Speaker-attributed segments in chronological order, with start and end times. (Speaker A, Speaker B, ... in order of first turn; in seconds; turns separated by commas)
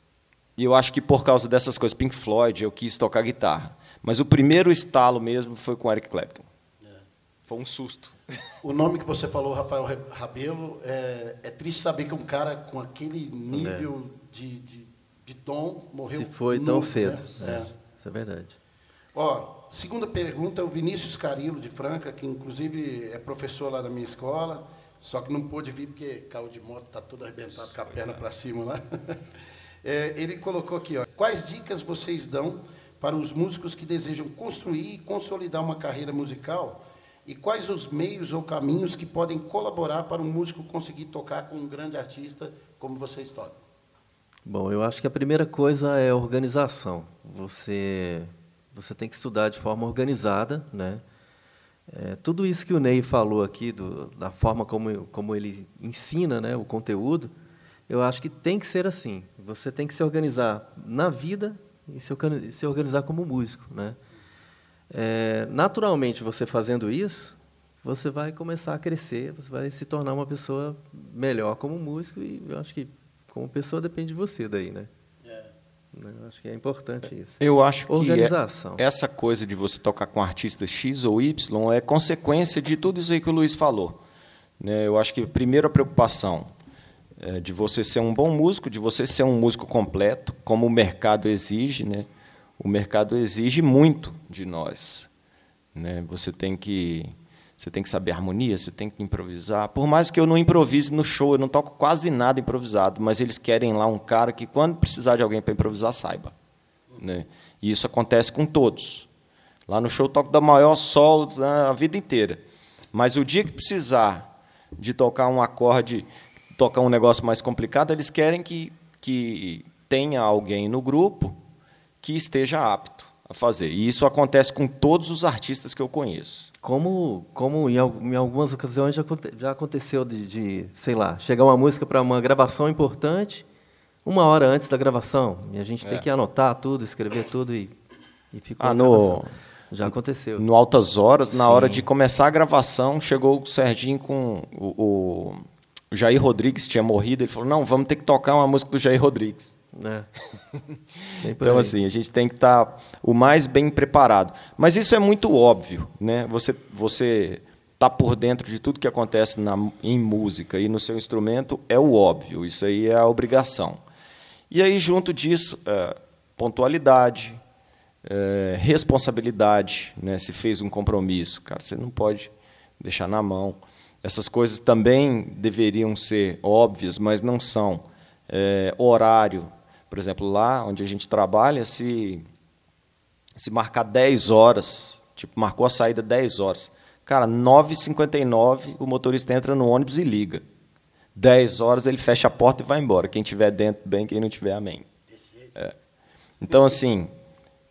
Speaker A: 0.6-6.5, Speaker A: 7.5-8.2, Speaker B: 8.6-17.7, Speaker C: 13.5-13.9, Speaker C: 16.1-18.6, Speaker B: 19.1-29.2, Speaker A: 27.8-28.1, Speaker B: 29.8-43.6, Speaker C: 44.5-51.0, Speaker C: 51.9-57.3, Speaker C: 57.9-64.0, Speaker C: 64.9-74.9, Speaker B: 75.2-75.5, Speaker C: 75.9-77.4, Speaker A: 77.4-84.0, Speaker C: 77.9-78.8, Speaker A: 84.6-86.5, Speaker A: 87.2-92.1, Speaker A: 92.6-95.1, Speaker A: 95.8-106.3, Speaker A: 107.0-109.1, Speaker A: 109.7-112.4, Speaker A: 112.9-121.4, Speaker A: 122.0-126.5, Speaker C: 126.6-133.5, Speaker C: 134.1-137.7, Speaker C: 138.3-140.5, Speaker A: 138.6-139.3, Speaker A: 139.8-149.5, Speaker C: 141.3-141.9, Speaker C: 149.7-150.1, Speaker C: 151.2-151.7, Speaker A: 151.3-163.8, Speaker A: 164.5-167.4, Speaker A: 168.0-182.2, Speaker A: 183.4-190.4, Speaker A: 191.2-194.9, Speaker B: 195.1-195.5, Speaker A: 196.4-197.1